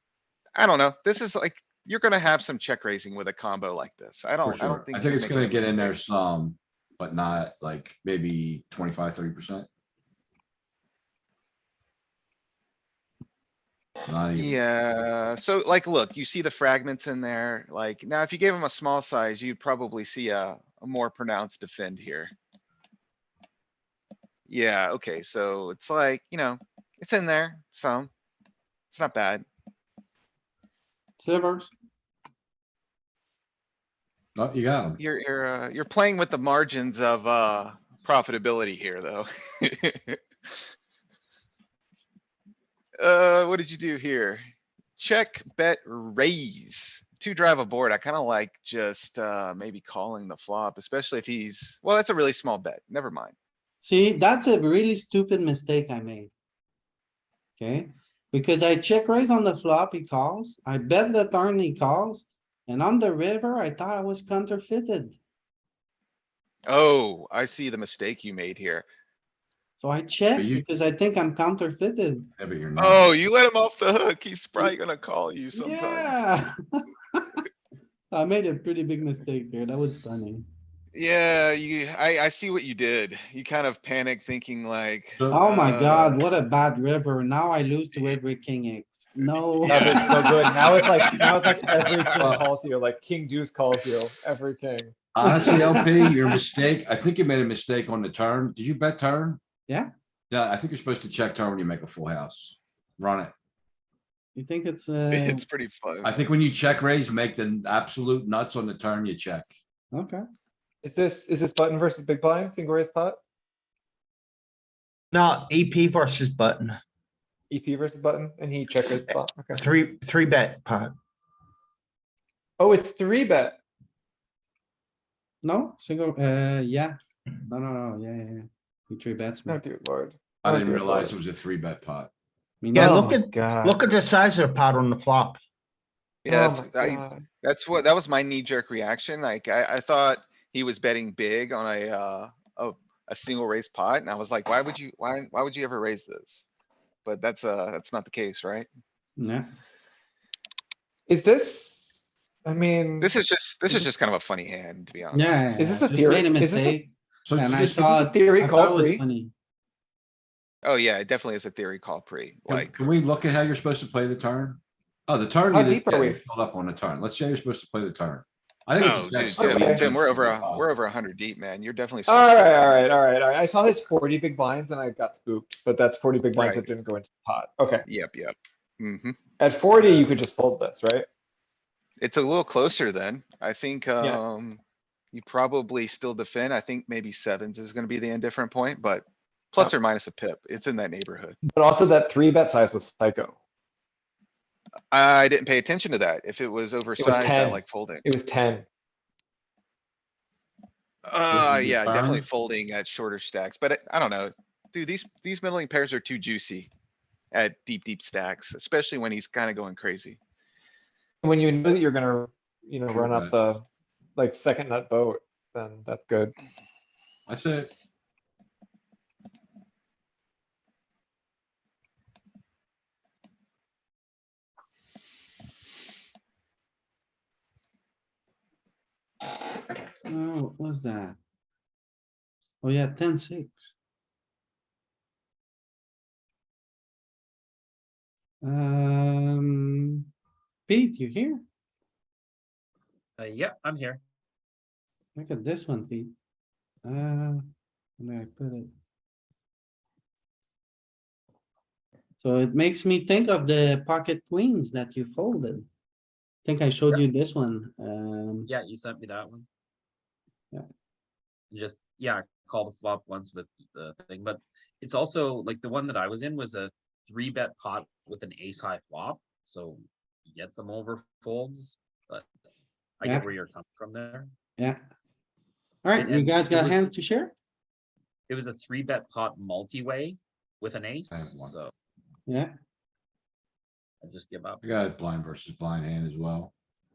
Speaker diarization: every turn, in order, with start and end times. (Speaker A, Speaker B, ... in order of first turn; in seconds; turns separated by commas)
Speaker A: 0.6-6.0, Speaker B: 4.4-9.7, Speaker B: 14.1-14.6, Speaker A: 14.4-22.3, Speaker A: 24.5-28.1, Speaker A: 28.9-29.4, Speaker C: 31.2-31.7, Speaker B: 34.3-35.0, Speaker A: 35.0-40.2, Speaker A: 43.0-44.4, Speaker A: 45.0-53.4, Speaker C: 53.8-56.3, Speaker C: 57.6-65.2, Speaker A: 66.7-68.9, Speaker C: 69.8-72.3, Speaker B: 70.3-70.6, Speaker B: 72.4-73.1, Speaker A: 72.8-76.2, Speaker C: 75.5-77.4, Speaker C: 78.1-80.4, Speaker A: 80.9-86.2, Speaker B: 85.2-85.5, Speaker C: 85.3-90.6, Speaker A: 89.2-90.8, Speaker D: 89.7-94.9, Speaker B: 91.7-92.4, Speaker A: 91.9-92.4, Speaker B: 95.1-99.4, Speaker C: 95.2-96.2, Speaker B: 100.3-103.3, Speaker C: 104.3-105.4, Speaker A: 105.1-106.1, Speaker B: 106.0-109.5, Speaker C: 109.9-110.2, Speaker D: 110.8-113.2, Speaker E: 115.1-116.8, Speaker D: 117.5-119.6, Speaker E: 118.9-120.9, Speaker D: 122.6-123.6, Speaker C: 125.4-129.6, Speaker D: 129.5-131.1, Speaker B: 130.4-132.1, Speaker C: 132.6-133.1, Speaker E: 132.7-135.4, Speaker D: 132.8-133.8, Speaker A: 136.2-146.4, Speaker D: 136.2-137.2, Speaker A: 147.0-148.7, Speaker C: 149.2-149.5, Speaker D: 151.1-153.1, Speaker A: 153.0-155.5, Speaker C: 155.1-159.3, Speaker D: 155.6-156.8, Speaker B: 157.3-158.0, Speaker D: 158.0-159.0, Speaker A: 160.6-162.8, Speaker B: 162.5-170.6, Speaker D: 165.5-166.2, Speaker A: 168.8-172.8, Speaker D: 169.3-169.8, Speaker D: 172.1-177.8, Speaker A: 176.3-176.7, Speaker A: 177.8-179.2, Speaker D: 179.4-181.1, Speaker A: 182.0-184.6, Speaker A: 185.1-191.4, Speaker D: 191.5-193.3, Speaker A: 194.9-198.0, Speaker D: 197.0-198.6, Speaker A: 201.1-206.7, Speaker B: 201.3-202.2, Speaker A: 207.3-210.2, Speaker D: 211.2-213.6, Speaker B: 212.9-213.3, Speaker D: 214.2-216.3, Speaker B: 217.3-217.7, Speaker C: 230.1-231.2, Speaker C: 232.6-233.7, Speaker C: 238.4-240.0, Speaker C: 240.7-241.4, Speaker F: 243.2-244.0, Speaker C: 245.2-246.1, Speaker C: 246.8-247.4, Speaker C: 248.0-248.7, Speaker C: 252.2-255.7, Speaker C: 256.4-258.5, Speaker F: 258.5-259.4, Speaker F: 261.5-272.2, Speaker D: 261.8-262.4, Speaker F: 273.0-274.3, Speaker C: 275.8-277.3, Speaker F: 276.0-276.8, Speaker D: 276.2-276.9, Speaker F: 278.3-281.7, Speaker B: 281.1-281.6, Speaker D: 281.2-281.5, Speaker F: 284.0-284.6, Speaker B: 284.6-286.5